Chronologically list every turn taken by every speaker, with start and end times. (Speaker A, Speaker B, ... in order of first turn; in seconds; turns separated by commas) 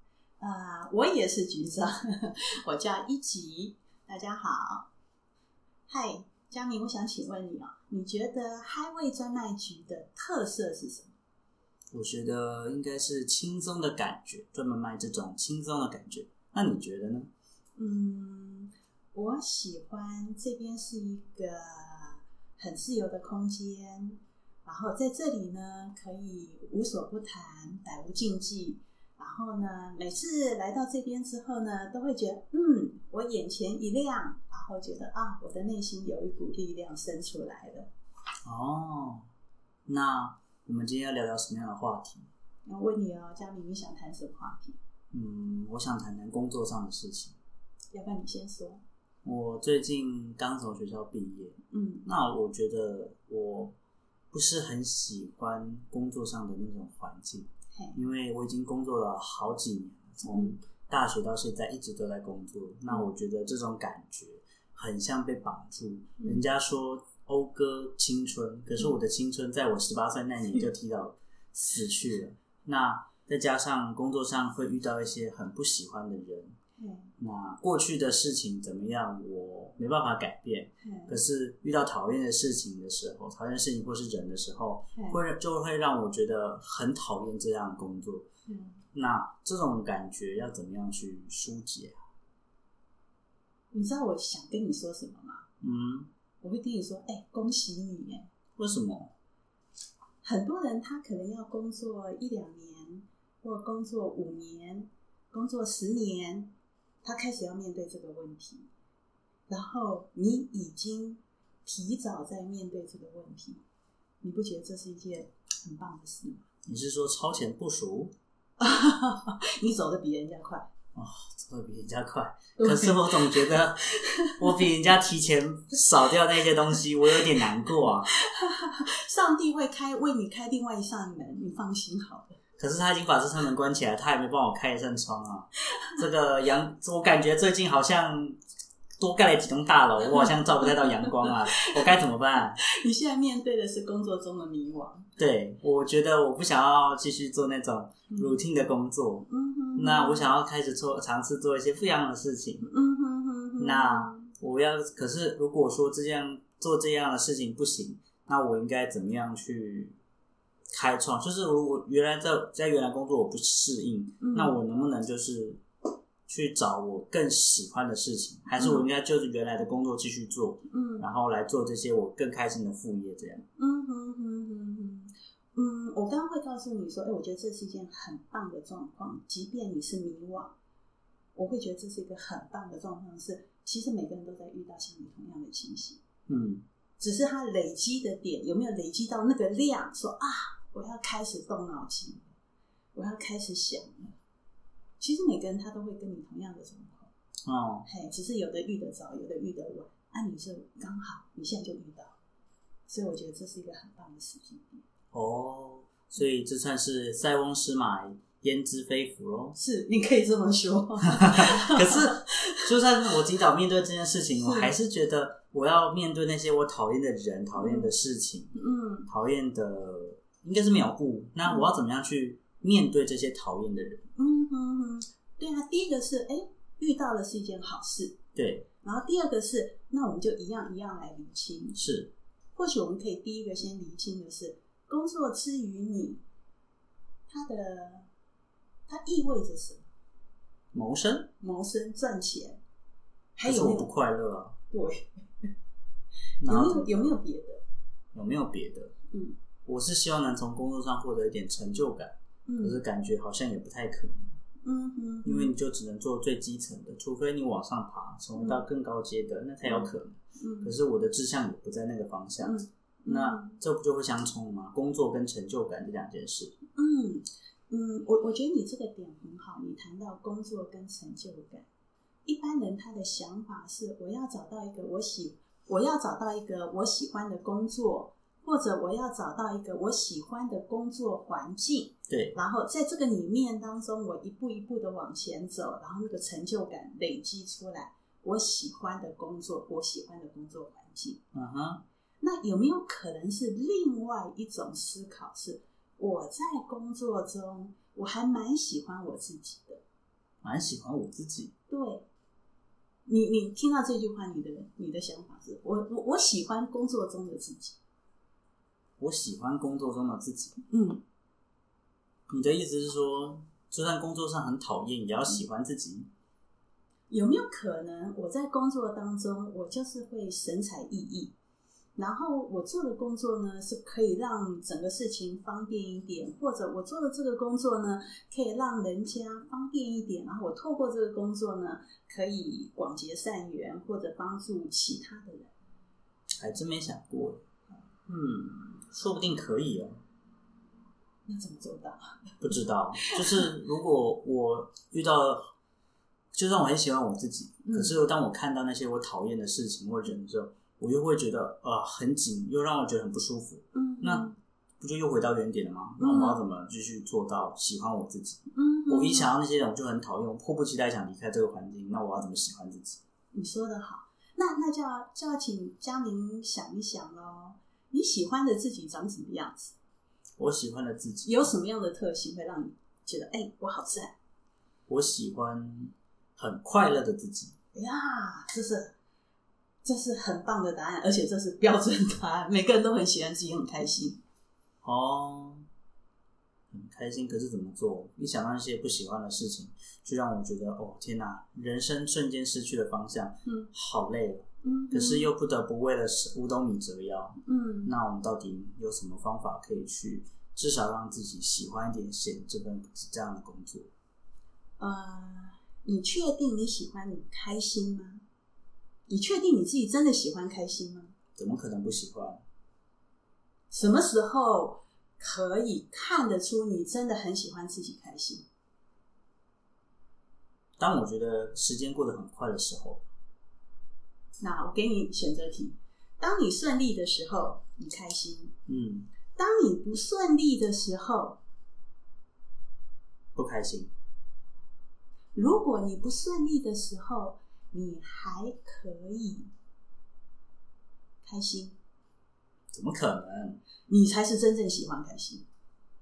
Speaker A: 0.4-4.9, Speaker A: 5.9-11.1, Speaker B: 11.9-17.3, Speaker A: 17.8-37.9, Speaker B: 38.5-39.3, Speaker B: 39.9-42.3, Speaker A: 42.7-44.8, Speaker B: 45.1-47.4, Speaker A: 47.9-48.8, Speaker B: 49.2-53.7, Speaker A: 51.7-52.1, Speaker B: 54.3-76.6, Speaker A: 60.3-60.5, Speaker A: 76.8-77.1, Speaker B: 77.2-88.3, Speaker A: 80.8-81.2, Speaker A: 88.5-88.8, Speaker B: 88.9-92.0, Speaker A: 93.7-95.5, Speaker B: 95.6-96.1, Speaker A: 96.4-98.3, Speaker B: 98.6-99.1, Speaker A: 100.2-108.7, Speaker A: 109.5-113.6, Speaker A: 114.2-116.4, Speaker B: 116.7-118.1, Speaker A: 118.6-120.7, Speaker B: 121.0-128.1, Speaker A: 122.6-124.7, Speaker A: 127.2-132.4, Speaker B: 132.6-138.4, Speaker B: 139.0-142.6, Speaker A: 140.1-141.8, Speaker A: 142.6-145.1, Speaker B: 145.2-152.7, Speaker A: 148.1-148.4, Speaker A: 149.3-150.3, Speaker A: 152.6-154.3, Speaker B: 153.6-160.0, Speaker B: 160.7-165.6, Speaker A: 164.2-164.6, Speaker B: 166.3-173.5, Speaker A: 168.5-168.9, Speaker A: 170.7-171.1, Speaker A: 173.6-180.6, Speaker A: 181.3-186.0, Speaker B: 186.3-186.6, Speaker A: 187.0-192.3, Speaker A: 192.9-194.2, Speaker A: 195.0-197.1, Speaker B: 197.5-197.9, Speaker A: 197.9-202.2, Speaker A: 202.9-204.8, Speaker B: 205.1-209.6, Speaker A: 209.6-212.7, Speaker B: 211.2-218.5, Speaker A: 214.4-214.7, Speaker A: 217.6-217.9, Speaker A: 218.6-219.1, Speaker B: 219.1-224.1, Speaker A: 224.2-228.2, Speaker B: 228.3-228.7, Speaker A: 228.8-231.8, Speaker B: 231.8-232.1, Speaker A: 232.6-236.2, Speaker A: 237.3-238.1, Speaker A: 238.9-239.9, Speaker B: 240.7-241.3, Speaker A: 241.4-242.6, Speaker A: 243.4-243.9, Speaker B: 243.5-244.6, Speaker A: 244.7-245.5, Speaker B: 246.4-246.9, Speaker A: 246.4-247.6, Speaker B: 248.1-248.9, Speaker A: 249.1-249.4, Speaker B: 249.7-254.4, Speaker A: 252.5-252.8, Speaker A: 254.6-255.5, Speaker B: 255.2-266.6, Speaker A: 259.6-260.7, Speaker A: 262.4-263.6, Speaker A: 266.8-271.7, Speaker A: 272.3-291.2, Speaker B: 282.1-282.4, Speaker B: 291.3-291.8, Speaker A: 292.2-299.8, Speaker B: 300.4-301.5, Speaker A: 301.7-302.1, Speaker A: 303.1-307.8, Speaker B: 309.0-310.6, Speaker A: 310.7-311.0, Speaker B: 312.3-316.1, Speaker A: 317.1-321.3, Speaker A: 322.0-335.5, Speaker B: 336.4-337.4, Speaker B: 338.1-340.0, Speaker A: 341.3-342.2, Speaker B: 342.4-345.5, Speaker A: 343.0-343.5, Speaker B: 346.3-354.3, Speaker A: 347.6-348.0, Speaker A: 353.7-354.4, Speaker B: 354.8-363.0, Speaker A: 356.0-356.4, Speaker A: 358.5-359.3, Speaker A: 363.3-369.8, Speaker B: 370.4-371.5, Speaker A: 371.2-374.1, Speaker B: 374.9-377.6, Speaker A: 377.7-378.9, Speaker A: 379.8-384.2, Speaker B: 384.8-385.6, Speaker B: 386.7-403.9, Speaker A: 394.6-395.3, Speaker A: 397.5-397.9, Speaker A: 404.8-408.2, Speaker A: 409.1-411.1, Speaker B: 411.4-412.4, Speaker A: 413.7-418.5, Speaker B: 420.8-423.1, Speaker A: 424.4-428.5, Speaker B: 428.7-429.1, Speaker A: 429.4-431.4, Speaker B: 433.4-433.9, Speaker A: 435.4-439.5, Speaker A: 441.2-441.8, Speaker B: 442.7-443.6, Speaker A: 443.9-445.5